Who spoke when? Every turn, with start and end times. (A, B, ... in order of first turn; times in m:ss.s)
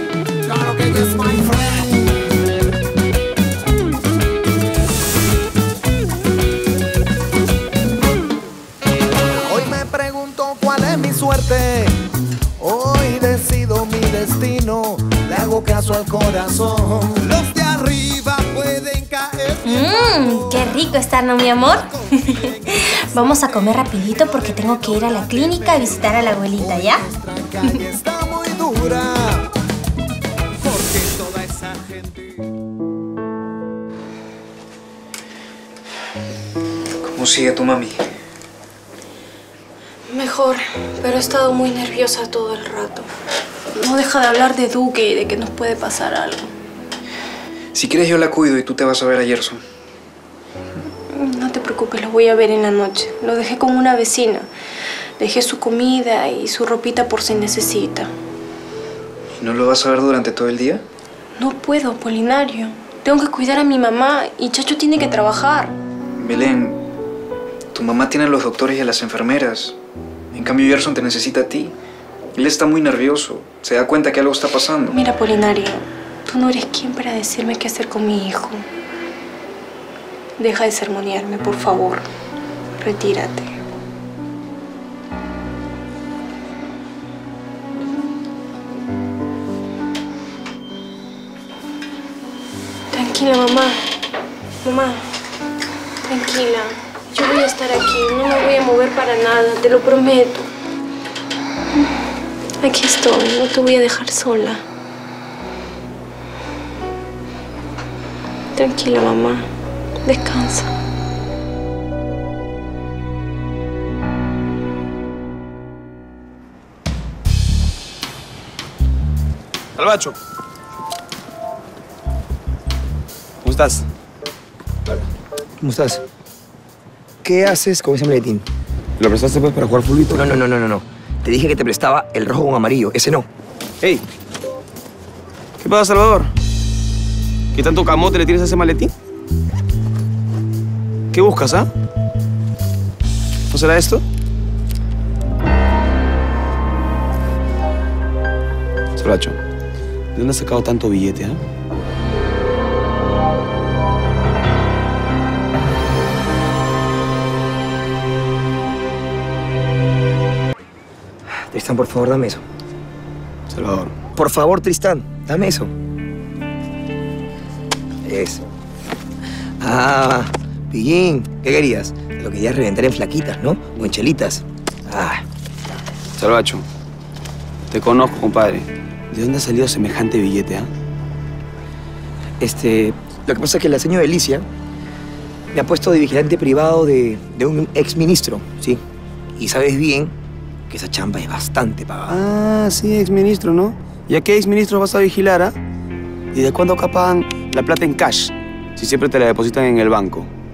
0:00.4-0:02.0 A
0:09.4-0:11.9 A
0:12.6-0:23.4 A
0:19.6-0:21.6 B
0:20.8-0:21.5 C
0:23.1-0:23.4 B
0:23.4-0:27.0 C
0:23.9-0:29.5 A
0:30.6-0:32.2 A
0:37.1-0:37.9 D
0:40.1-0:43.1 B
0:43.7-0:46.5 B
0:47.7-0:49.6 D
0:51.1-0:54.5 B
0:55.2-0:58.1 B
0:59.4-1:00.8 D
1:01.4-1:05.8 B
1:06.2-1:06.8 D
1:07.7-1:09.8 D
1:10.3-1:11.7 D
1:12.4-1:14.9 D
1:14.9-1:18.6 B
1:20.4-1:22.0 B
1:22.8-1:23.5 B
1:32.9-1:33.8 B
1:34.6-1:35.0 B
1:36.0-1:40.5 B
1:42.6-1:44.6 B
1:48.6-1:49.5 B
1:50.0-1:50.7 B
1:59.8-2:00.2 E
2:03.4-2:03.9 E
2:05.6-2:06.0 F
2:07.2-2:08.4 F
2:09.0-2:10.4 E
2:10.1-2:13.3 F
2:15.6-2:16.3 E
2:17.5-2:18.9 E
2:21.1-2:21.7 E
2:23.5-2:24.0 E
2:29.0-2:29.4 E
2:30.2-2:31.4 E
2:41.5-2:42.4 F
2:43.5-2:43.9 E
2:44.2-2:45.7 F
2:48.0-2:48.5 F
2:49.6-2:55.2 F
2:56.2-2:56.7 E
2:57.7-3:00.7 E
3:02.4-3:04.4 F
3:05.5-3:08.8 F
3:09.4-3:10.1 F
3:10.7-3:12.2 F
3:12.1-3:15.6 E
3:16.3-3:20.3 E